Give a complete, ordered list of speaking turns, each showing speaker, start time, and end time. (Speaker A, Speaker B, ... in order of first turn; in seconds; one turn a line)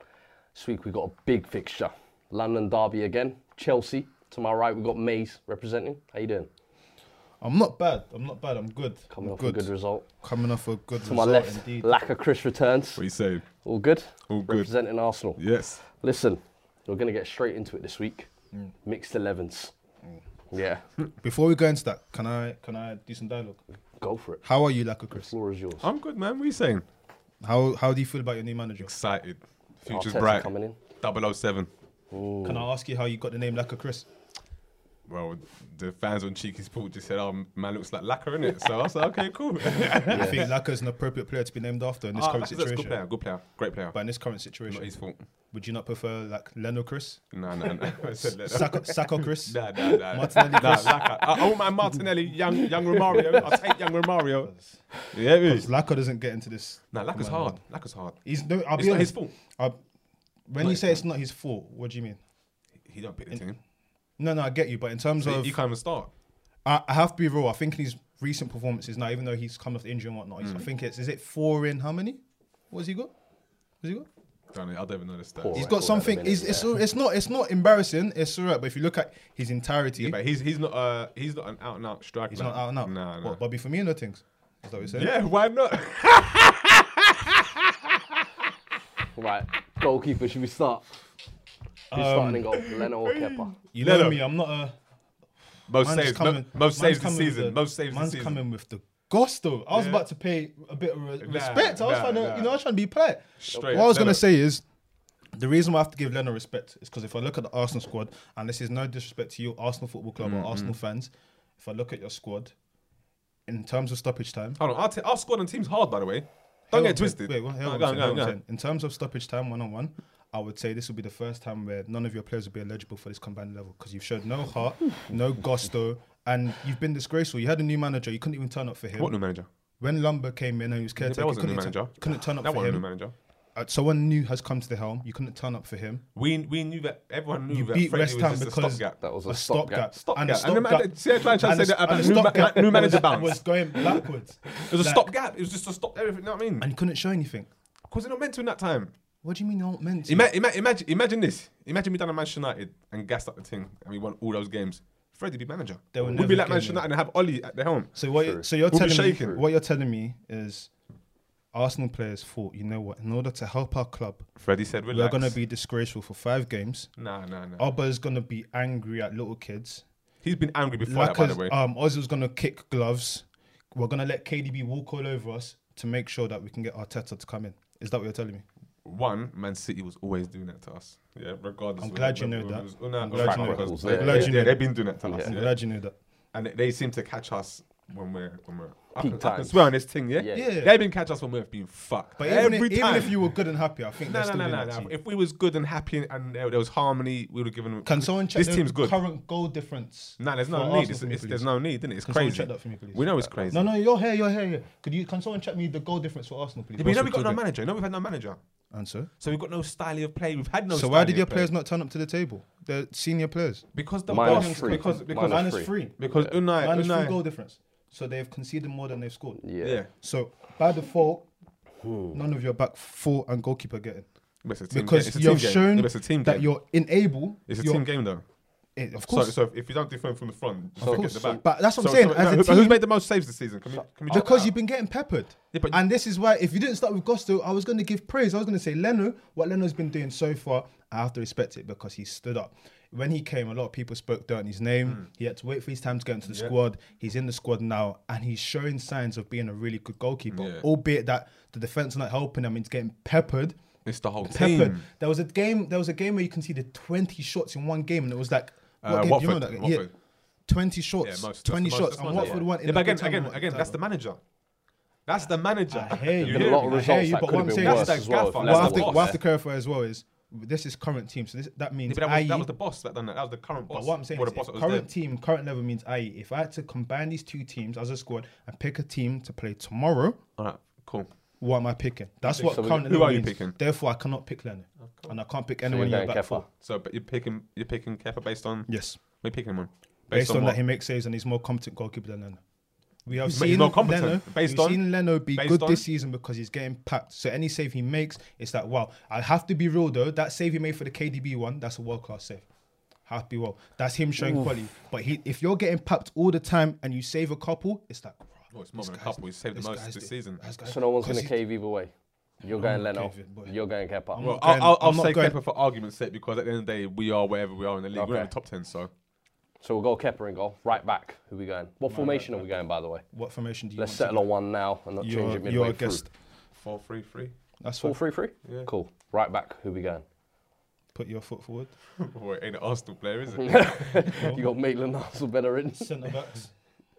Speaker A: 0.5-6.5
Speaker B: 7.4-9.7
Speaker A: 9.1-10.0
Speaker B: 10.2-11.9
Speaker A: 11.0-13.0
Speaker C: 13.0-13.4
Speaker A: 13.6-15.4
Speaker C: 14.3-14.7
Speaker C: 15.4-15.8
Speaker A: 15.9-18.3
Speaker A: 18.8-19.7
Speaker A: 20.5-20.8
Speaker B: 21.2-23.6
Speaker A: 24.0-24.4
Speaker B: 24.4-25.3
Speaker A: 25.1-25.9
Speaker C: 25.8-26.8
Speaker B: 27.4-28.9
Speaker C: 28.8-30.5
Speaker A: 29.9-30.8
Speaker C: 31.0-31.7
Speaker A: 32.1-32.6
Speaker B: 32.4-34.0
Speaker C: 35.1-40.5
Speaker B: 40.0-43.0
Speaker A: 40.1-40.4
Speaker C: 42.1-44.0
Speaker B: 43.9-44.9
Speaker C: 44.7-45.2
Speaker B: 45.5-47.2
Speaker C: 47.3-54.5
Speaker B: 48.2-51.1
Speaker A: 50.3-51.5
Speaker B: 53.2-53.6
Speaker B: 54.4-54.8
Speaker C: 55.1-55.7
Speaker B: 55.4-57.6
Speaker C: 56.9-58.2
Speaker B: 58.2-59.8
Speaker C: 58.8-59.3
Speaker B: 60.5-62.2
Speaker C: 60.6-61.0
Speaker C: 62.8-63.6
Speaker B: 64.2-65.5
Speaker C: 65.2-66.1
Speaker B: 66.6-72.2
Speaker B: 72.7-73.1
Speaker B: 73.8-74.1
Speaker C: 74.5-75.7
Speaker A: 75.4-76.7
Speaker B: 75.5-80.2
Speaker C: 80.0-83.4
Speaker B: 82.3-85.1
Speaker C: 84.9-87.7
Speaker A: 89.2-90.9
Speaker B: 91.9-92.5
Speaker A: 91.9-93.5
Speaker C: 92.5-94.2
Speaker B: 93.7-94.7
Speaker C: 95.7-98.4
Speaker B: 95.8-104.6
Speaker C: 99.7-100.0
Speaker C: 101.2-102.5
Speaker C: 103.4-104.2
Speaker B: 105.3-112.5
Speaker C: 110.2-110.7
Speaker B: 113.5-114.6
Speaker C: 114.6-118.3
Speaker B: 116.7-129.1
Speaker C: 129.0-129.5
Speaker B: 129.8-132.8
Speaker C: 131.0-133.1
Speaker B: 133.6-136.0
Speaker C: 136.1-139.0
Speaker B: 137.5-145.1
Speaker A: 139.0-139.9
Speaker C: 139.9-143.4
Speaker C: 144.7-146.7
Speaker B: 146.6-147.5
Speaker C: 147.9-148.9
Speaker B: 149.2-150.3
Speaker C: 150.1-158.0
Speaker B: 155.9-156.8
Speaker B: 157.9-160.7
Speaker A: 158.2-158.4
Speaker C: 158.7-159.4
Speaker B: 161.5-164.3
Speaker C: 164.4-165.3
Speaker B: 164.9-166.9
Speaker C: 167.0-167.7
Speaker B: 167.6-169.8
Speaker C: 170.2-171.5
Speaker B: 170.8-178.4
Speaker C: 178.8-185.6
Speaker B: 181.8-184.7
Speaker A: 183.1-185.3
Speaker B: 185.2-185.9
Speaker C: 186.3-193.2
Speaker A: 189.0-190.5
Speaker B: 190.3-190.8
Speaker B: 192.2-194.9
Speaker C: 194.0-199.0
Speaker B: 197.8-201.5
Speaker C: 200.2-203.7
Speaker B: 202.0-207.4
Speaker C: 206.8-208.4
Speaker B: 208.7-209.1
Speaker C: 209.2-211.5
Speaker B: 210.7-213.7
Speaker C: 213.7-217.2
Speaker A: 214.1-216.3
Speaker B: 214.2-221.3
Speaker A: 219.4-219.8
Speaker C: 219.6-219.9
Speaker A: 221.8-222.2
Speaker B: 222.1-224.1
Speaker C: 224.4-226.5
Speaker B: 224.7-227.8
Speaker C: 227.5-228.2
Speaker B: 228.8-229.3
Speaker C: 229.1-234.5
Speaker A: 230.8-231.4
Speaker B: 230.8-232.8
Speaker B: 234.1-253.6
Speaker C: 235.5-235.8
Speaker C: 246.3-246.5
Speaker C: 250.3-250.6
Speaker C: 253.8-254.8
Speaker B: 254.2-259.9
Speaker C: 258.8-259.9
Speaker B: 260.5-263.8
Speaker C: 261.0-264.2
Speaker A: 262.1-262.4
Speaker C: 265.1-269.1
Speaker B: 265.7-272.5
Speaker A: 266.2-269.2
Speaker C: 271.9-274.9
Speaker B: 273.7-280.2
Speaker C: 280.4-281.1
Speaker B: 281.4-286.4
Speaker A: 282.3-282.9
Speaker C: 282.7-283.6
Speaker C: 284.8-285.1
Speaker A: 285.6-286.4
Speaker C: 286.6-290.6
Speaker B: 288.7-289.0
Speaker B: 290.1-292.4
Speaker B: 293.1-302.4
Speaker C: 293.3-294.8
Speaker C: 295.3-295.8
Speaker B: 303.1-311.4
Speaker C: 308.5-310.4
Speaker A: 310.6-311.9
Speaker A: 312.4-314.3
Speaker B: 312.5-313.5
Speaker B: 314.1-315.4
Speaker C: 314.2-318.9
Speaker A: 317.9-318.3
Speaker A: 319.6-323.0
Speaker B: 321.9-322.5
Speaker B: 323.1-324.3
Speaker A: 323.8-326.0
Speaker B: 325.0-326.1
Speaker C: 326.6-327.3
Speaker B: 327.6-328.0
Speaker A: 327.8-330.0
Speaker C: 328.4-328.7
Speaker B: 330.9-331.7
Speaker C: 332.0-334.2
Speaker A: 333.4-335.9
Speaker B: 335.8-336.5